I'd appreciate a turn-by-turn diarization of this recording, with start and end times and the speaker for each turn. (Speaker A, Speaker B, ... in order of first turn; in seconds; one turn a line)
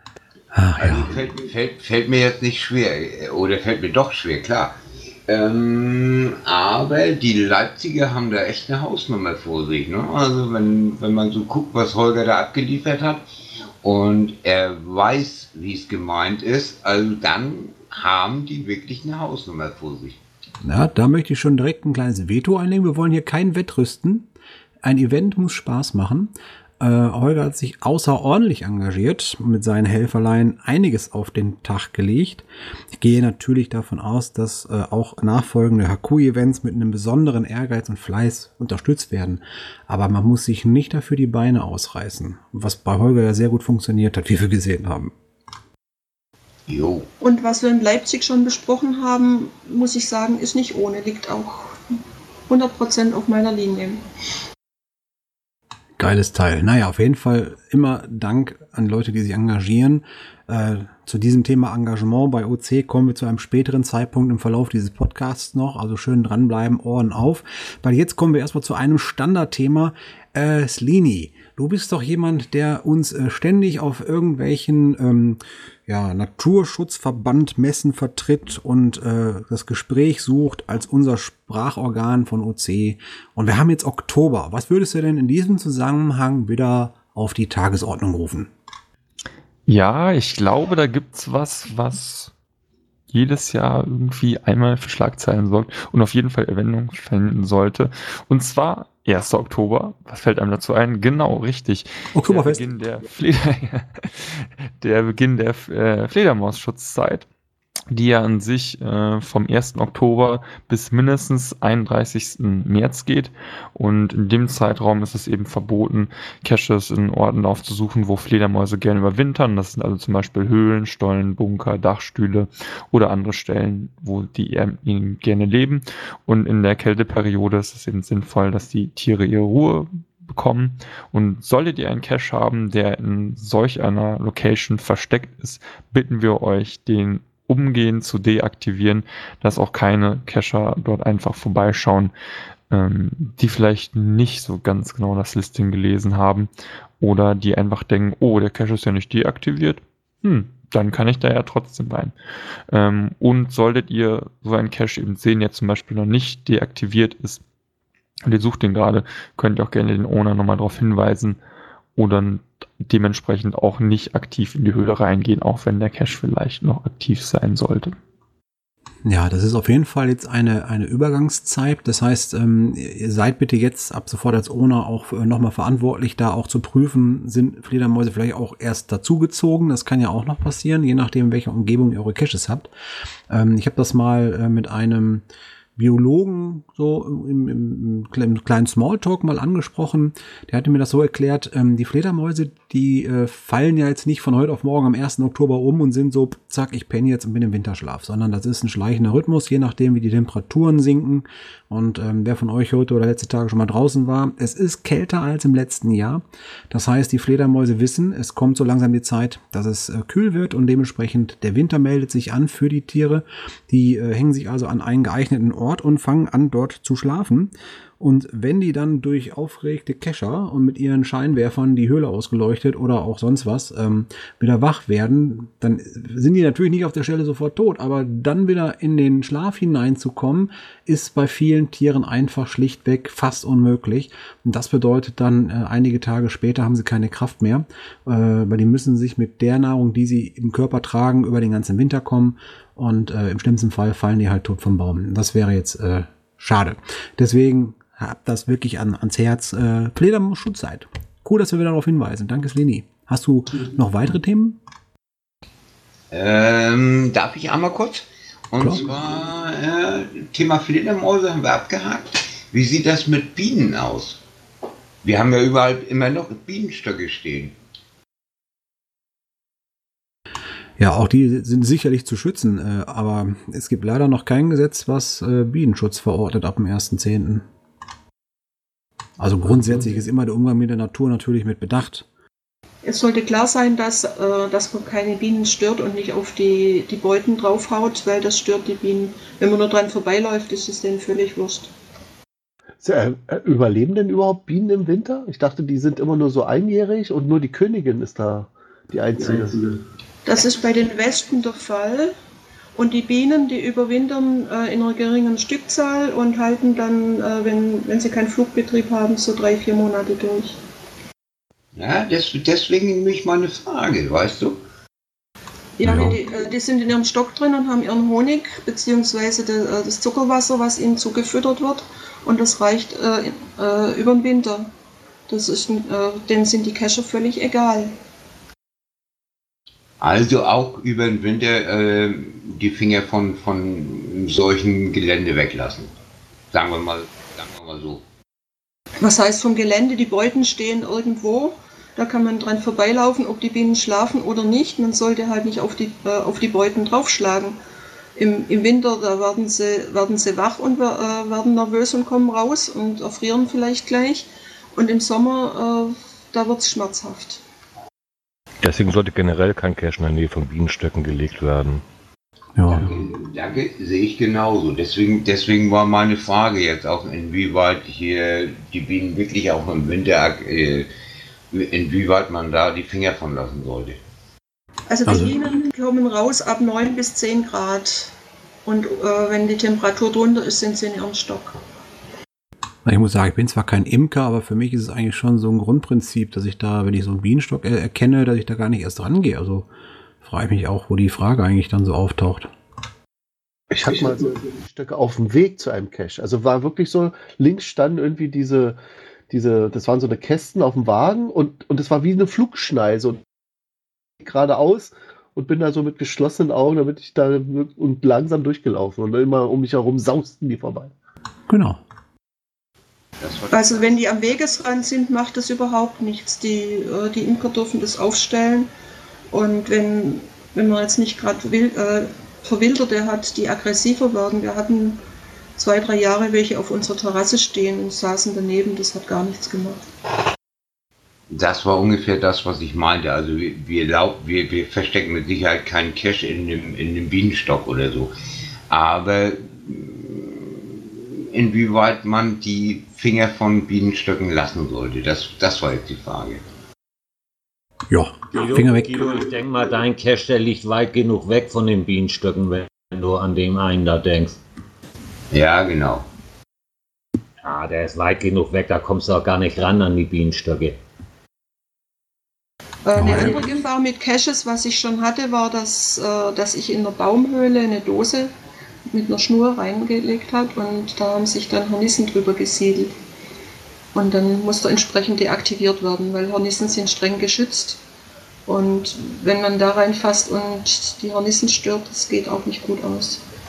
Speaker A: 0.5-1.2
Speaker B: 0.8-13.2
Speaker B: 13.8-20.2
Speaker A: 20.6-24.3
Speaker A: 24.8-45.1
Speaker B: 46.7-47.1
Speaker C: 47.2-51.8
Speaker C: 52.5-54.0
Speaker A: 56.0-88.5
Speaker D: 89.7-92.3
Speaker D: 93.1-107.2
Speaker A: 102.1-102.7
Speaker D: 107.9-142.1
Speaker D: 142.7-152.1
Speaker D: 152.7-157.4
Speaker D: 158.2-161.4
Speaker D: 161.9-167.9
Speaker A: 169.1-182.7
Speaker A: 183.3-185.2
Speaker A: 185.8-254.6
Speaker B: 256.1-264.2
Speaker B: 265.0-267.6
Speaker A: 270.8-277.4
Speaker A: 279.2-282.1
Speaker C: 282.8-291.7
Speaker E: 292.8-299.6
Speaker C: 300.2-302.1
Speaker C: 302.8-310.6
Speaker B: 311.8-314.6
Speaker C: 315.8-324.7
Speaker A: 315.8-316.2
Speaker C: 325.3-327.9
Speaker B: 330.0-335.9
Speaker B: 336.5-338.1
Speaker C: 339.0-347.6
Speaker C: 348.2-357.4
Speaker F: 358.6-361.8
Speaker A: 362.6-362.9
Speaker B: 362.8-370.9
Speaker B: 371.5-374.0
Speaker C: 374.9-378.1
Speaker A: 375.1-375.3
Speaker C: 378.6-381.6
Speaker A: 382.8-389.7
Speaker A: 390.2-392.5
Speaker E: 393.8-398.8
Speaker E: 399.3-403.2
Speaker E: 404.2-410.9
Speaker A: 411.5-411.8
Speaker B: 413.2-414.4
Speaker C: 413.5-418.7
Speaker C: 419.3-425.0
Speaker C: 425.6-429.9
Speaker B: 431.3-438.1
Speaker B: 438.7-446.4
Speaker A: 447.9-449.1
Speaker G: 448.3-454.4
Speaker B: 455.3-456.1
Speaker G: 457.4-460.8
Speaker C: 462.9-468.3
Speaker A: 462.9-463.3
Speaker C: 468.9-472.9
Speaker C: 473.9-477.8
Speaker C: 478.5-483.2